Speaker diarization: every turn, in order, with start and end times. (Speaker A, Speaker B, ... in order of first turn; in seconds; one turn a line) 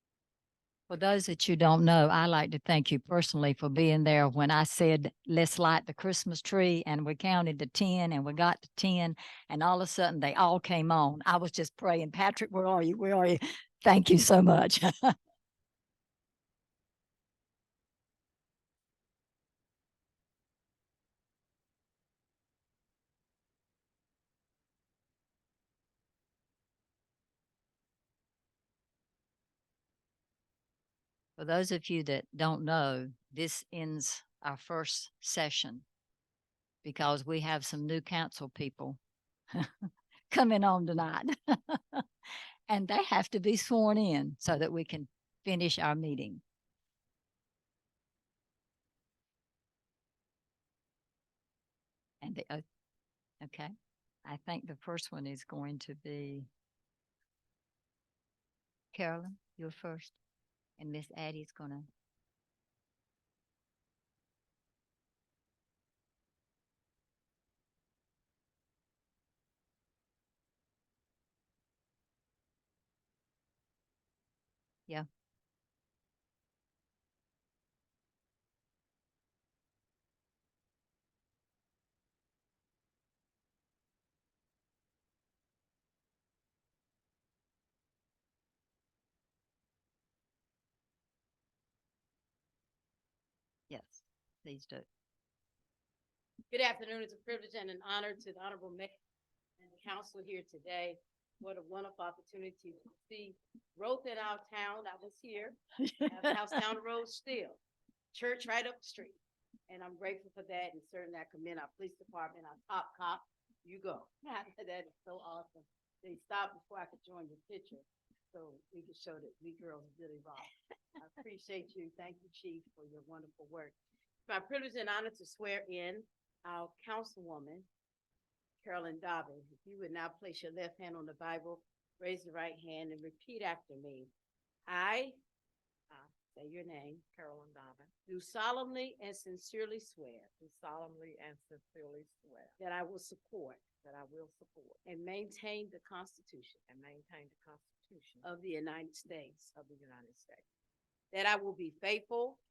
Speaker A: 0.9-15.1
Speaker A: 31.4-35.8
Speaker A: 36.8-39.0
Speaker A: 39.5-42.0
Speaker A: 42.7-46.4
Speaker A: 52.2-52.6
Speaker A: 53.4-53.7
Speaker A: 54.2-56.5
Speaker A: 58.9-60.2
Speaker A: 60.8-61.9
Speaker A: 93.7-94.8
Speaker B: 96.5-98.9
Speaker B: 99.6-107.6
Speaker A: 105.8-106.6
Speaker B: 108.1-109.2
Speaker B: 109.7-123.8
Speaker B: 124.3-127.7
Speaker B: 128.6-134.1
Speaker B: 134.7-135.2
Speaker B: 136.3-137.0
Speaker C: 137.1-137.9
Speaker B: 138.1-140.3
Speaker C: 140.4-142.6
Speaker B: 142.6-143.6
Speaker C: 143.8-144.8
Speaker B: 144.8-146.6
Speaker C: 146.7-148.2
Speaker B: 148.2-149.5
Speaker C: 149.5-150.4
Speaker B: 151.1-152.4